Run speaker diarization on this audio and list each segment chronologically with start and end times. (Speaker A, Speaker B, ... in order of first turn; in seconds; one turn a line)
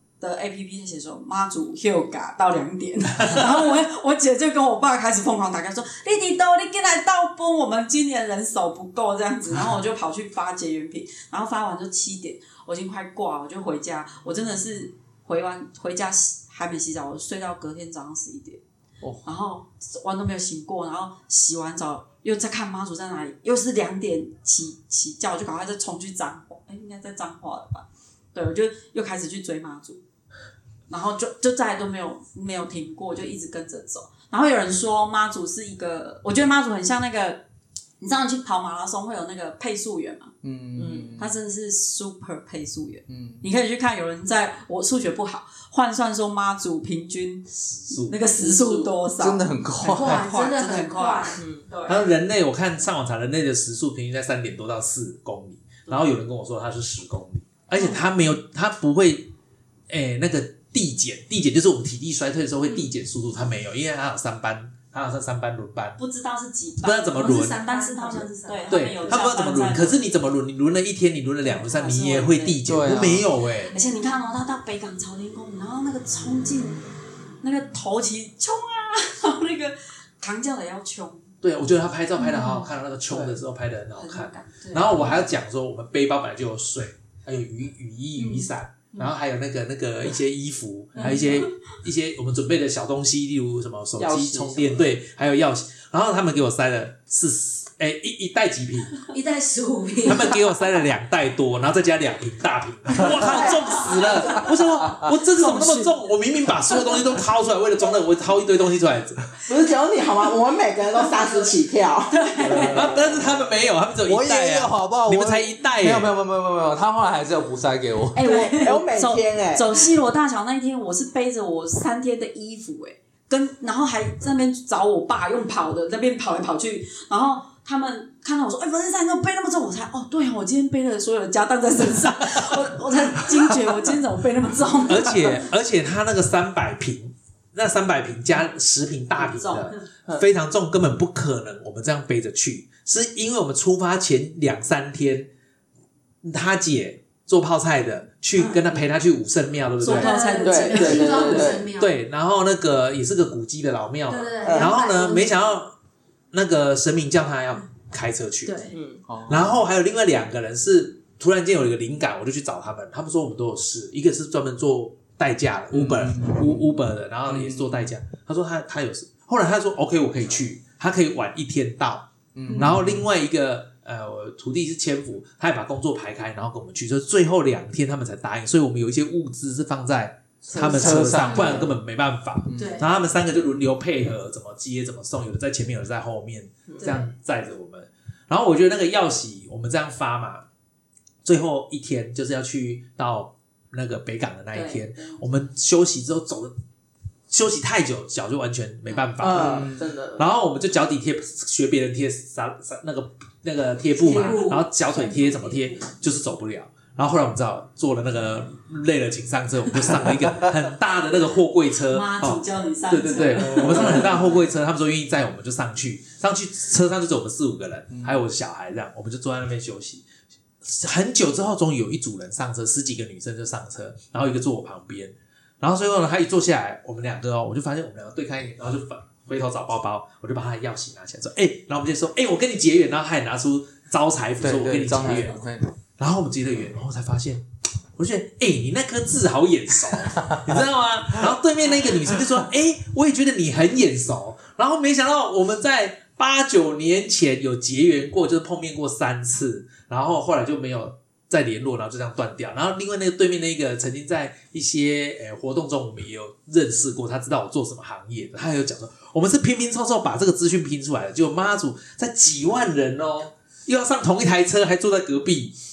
Speaker A: 0.2-18.6
Speaker A: 19.2-30.0
Speaker A: 30.9-37.4
Speaker A: 38.0-40.3
Speaker B: 40.4-41.3
Speaker A: 41.1-52.0
Speaker B: 43.1-43.4
Speaker C: 47.6-48.2
Speaker B: 49.2-50.3
Speaker D: 49.9-51.4
Speaker C: 51.9-59.3
Speaker C: 59.9-66.0
Speaker A: 66.0-70.0
Speaker C: 66.8-67.6
Speaker D: 67.2-69.0
Speaker C: 68.7-73.7
Speaker A: 71.5-72.6
Speaker B: 72.7-73.3
Speaker A: 73.7-76.8
Speaker A: 77.4-81.3
Speaker C: 81.4-99.1
Speaker B: 83.1-83.4
Speaker A: 84.0-85.1
Speaker D: 88.2-88.5
Speaker B: 94.2-94.5
Speaker D: 99.1-100.4
Speaker C: 100.0-109.2
Speaker A: 105.5-105.8
Speaker E: 109.5-112.2
Speaker D: 112.3-112.7
Speaker B: 112.4-113.0
Speaker C: 112.7-116.1
Speaker B: 114.0-118.2
Speaker A: 118.1-135.4
Speaker E: 118.3-119.7
Speaker D: 118.3-118.6
Speaker C: 134.9-145.3
Speaker A: 139.2-139.8
Speaker C: 146.2-150.2
Speaker D: 148.4-148.7
Speaker A: 149.8-151.4
Speaker D: 149.8-152.0
Speaker E: 150.4-151.7
Speaker C: 151.1-155.7
Speaker D: 154.1-155.3
Speaker E: 154.4-154.8
Speaker C: 156.3-158.7
Speaker D: 158.4-158.8
Speaker B: 159.1-159.5
Speaker C: 159.3-190.5
Speaker B: 165.7-167.9
Speaker B: 172.4-173.1
Speaker D: 172.5-172.7
Speaker B: 180.5-181.8
Speaker D: 180.6-181.0
Speaker B: 182.5-182.8
Speaker D: 182.6-182.9
Speaker D: 186.8-187.1
Speaker C: 191.2-196.5
Speaker A: 194.5-195.2
Speaker C: 197.3-220.1
Speaker E: 199.2-200.2
Speaker B: 199.3-199.8
Speaker A: 204.0-205.8
Speaker D: 204.1-204.6
Speaker A: 211.9-214.1
Speaker C: 220.6-235.4
Speaker B: 234.4-235.7
Speaker C: 236.0-265.6